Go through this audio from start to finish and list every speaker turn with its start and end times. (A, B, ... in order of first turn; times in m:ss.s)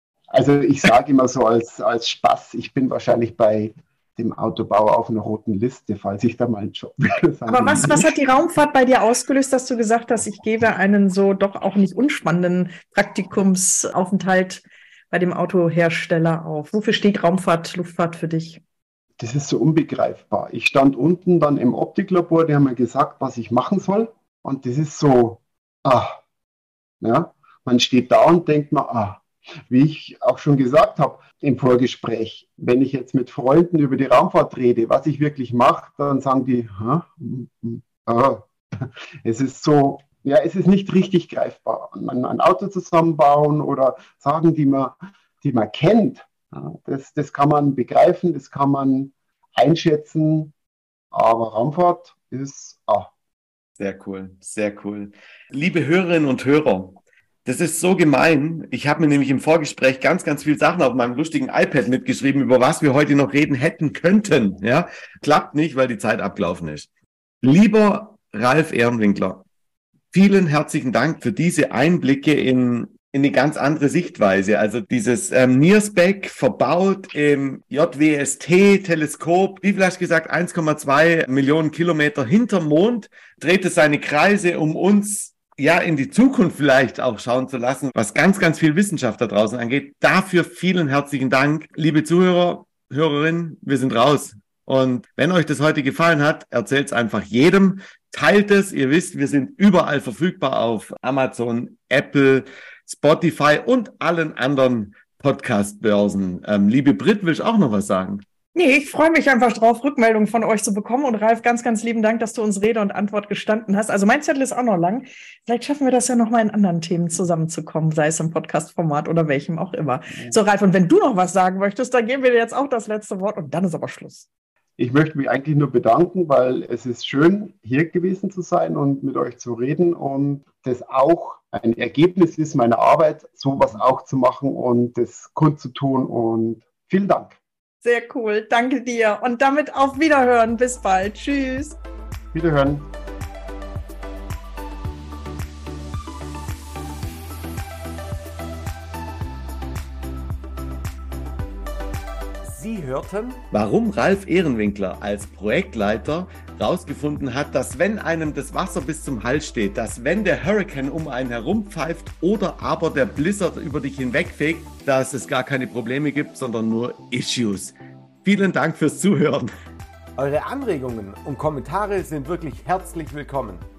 0:00.3-0:08.2 A
0:07.5-0:18.6 B
0:19.2-0:26.2 A
0:27.0-0:50.5 A
0:51.1-0:53.1 A
0:53.8-1:06.9 C
1:07.4-1:09.5 C
1:10.1-1:48.2 C
1:48.6-2:04.3 B
2:04.8-2:17.4 A
2:17.8-2:21.8 B
2:22.3-2:22.9 A
2:32.4-2:49.5 C
2:50.2-2:53.7 C